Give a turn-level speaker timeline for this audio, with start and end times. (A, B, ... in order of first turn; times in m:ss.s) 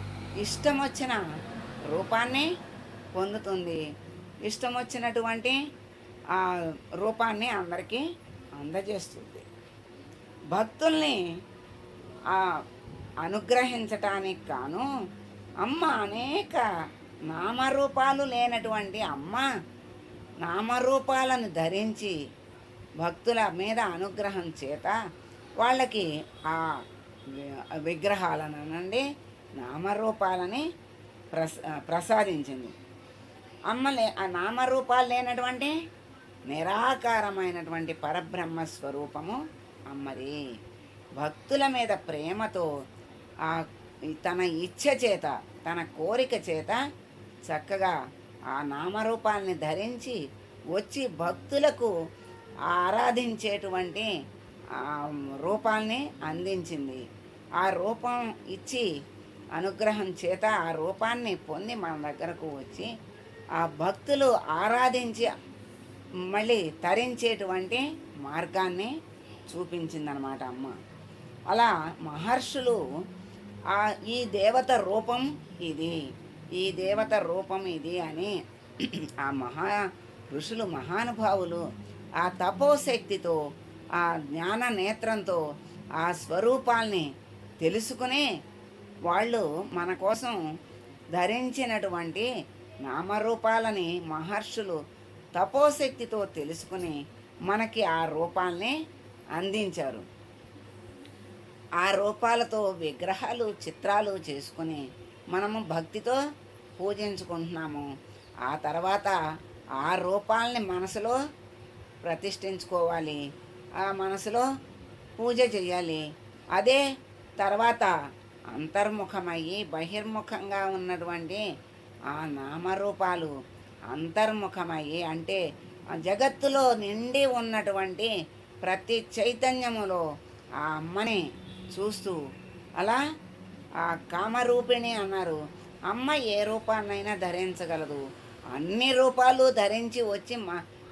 0:00.4-0:01.2 A
0:01.9-0:02.5 A
0:03.2-0:03.8 A
0:04.5-0:05.6 A
0:06.3-0:08.0 A
0:08.6-0:09.5 A
0:10.5-0:11.2 A
0:12.3-0:12.6 A
0:13.2-0:14.9 A
0:15.6-0:16.7 A
0:17.3-0:19.5 A
0:20.4-0:22.2 A
0:23.0-0:25.0 A
0:25.6-0:26.8 A
0:27.3-0:29.0 A
0:29.6-0:30.6 A
0:31.3-0:32.8 A
0:33.7-0:35.8 A
0:36.5-0:40.4 A
0:41.2-0:42.7 A
0:43.4-0:46.8 A
0:47.5-0:48.0 A
0:48.5-0:50.2 A
0:50.8-0:51.9 A
0:52.7-0:54.1 A
0:54.8-0:57.0 A
0:57.6-0:58.9 A
0:59.6-1:02.9 A
1:03.6-1:05.3 A
1:06.3-1:08.9 A
1:09.5-1:10.8 A
1:11.5-1:12.8 A
1:13.7-1:16.0 A
1:16.6-1:21.6 A
1:22.2-1:23.4 A
1:24.0-1:25.4 A
1:26.0-1:27.1 A
1:27.6-1:28.3 A
1:29.1-1:30.4 A
1:31.2-1:32.3 A
1:32.9-1:34.8 A
1:35.4-1:38.8 A
1:39.4-1:40.0 A
1:41.8-1:46.2 A
1:46.8-1:47.9 A
1:48.5-1:49.2 A
1:49.8-1:51.2 A
1:52.0-1:53.2 A
1:53.8-1:54.5 A
1:55.2-1:56.0 A
1:56.6-1:56.8 A
1:57.4-1:57.9 A
1:58.5-2:01.4 A
2:02.1-2:03.3 A
2:03.9-2:05.4 A
2:06.0-2:08.1 A
2:08.6-2:10.0 A
2:10.6-2:11.2 A
2:11.8-2:12.2 A
2:13.8-2:20.6 A